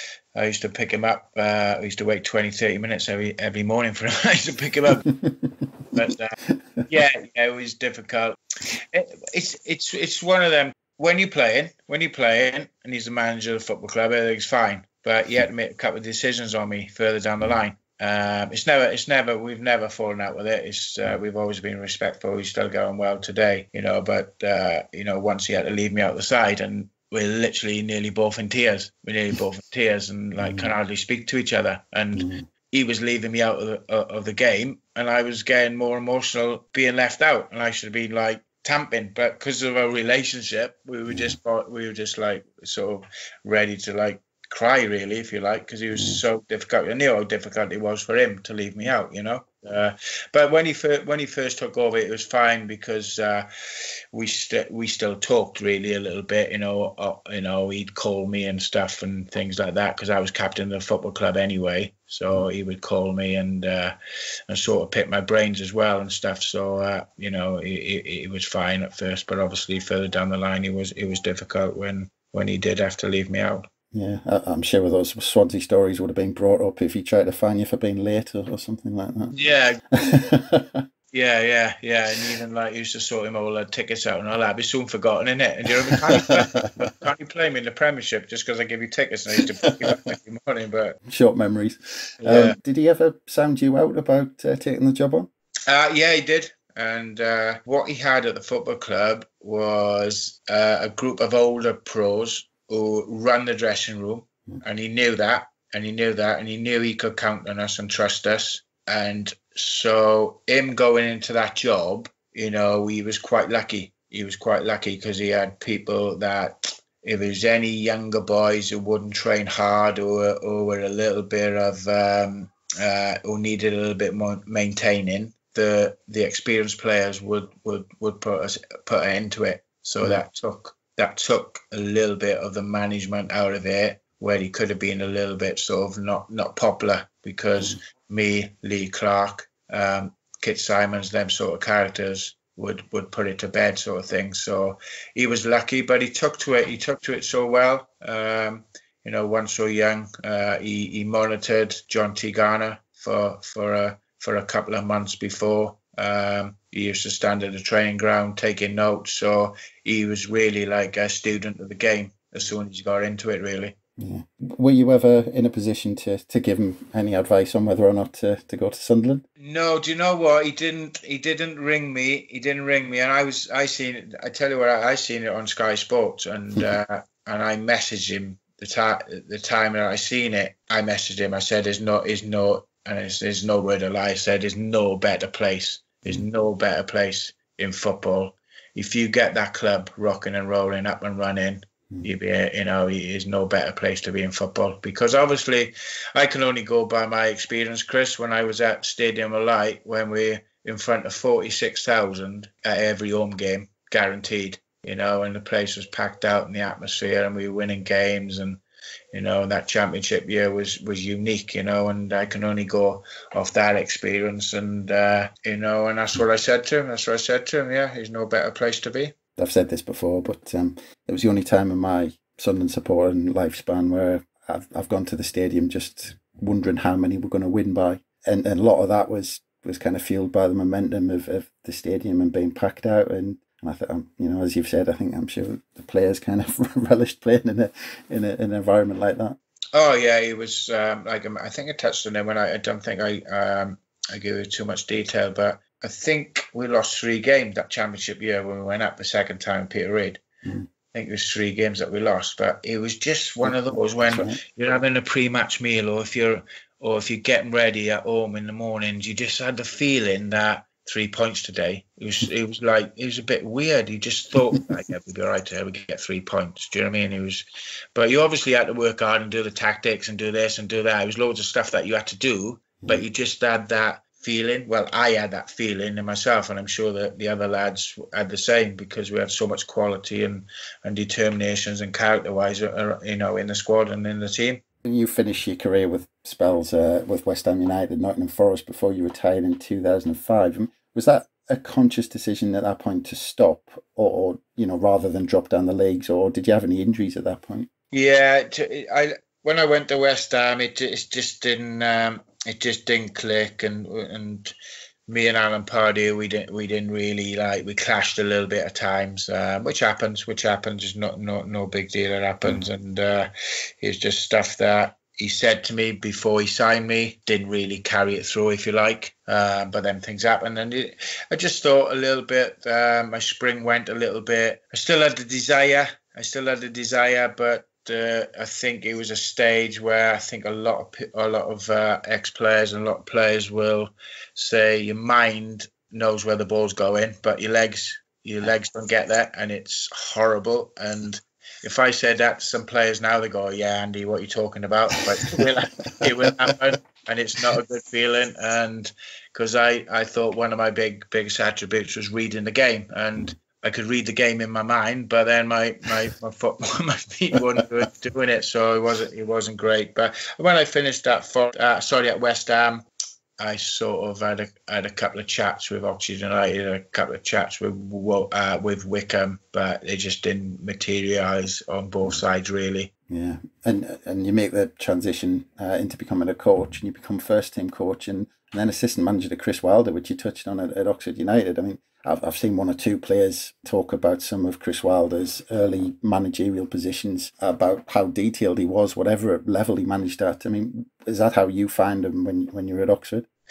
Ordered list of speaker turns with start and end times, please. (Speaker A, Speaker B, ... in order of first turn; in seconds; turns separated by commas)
Speaker A: 0.3-5.1, Speaker B: 5.1-5.9, Speaker A: 5.9-6.3, Speaker B: 6.5-6.8, Speaker A: 6.9-53.5, Speaker B: 30.4-30.7, Speaker B: 32.1-32.5, Speaker B: 41.1-41.4, Speaker B: 45.9-46.2, Speaker A: 54.1-63.9, Speaker A: 64.5-73.7, Speaker B: 73.9-79.3, Speaker A: 79.3-79.8, Speaker B: 79.9-80.8, Speaker A: 81.1-91.0, Speaker B: 85.9-86.7, Speaker B: 91.1-95.3, Speaker A: 92.2-92.5, Speaker A: 95.7-163.7, Speaker B: 164.0-169.2, Speaker A: 169.4-208.6, Speaker A: 209.1-219.1, Speaker B: 219.4-239.4, Speaker A: 239.7-250.2, Speaker A: 250.9-284.6, Speaker B: 253.4-254.4, Speaker B: 284.8-297.7, Speaker A: 297.9-304.5, Speaker A: 305.1-362.8, Speaker A: 363.4-372.9, Speaker B: 373.1-393.2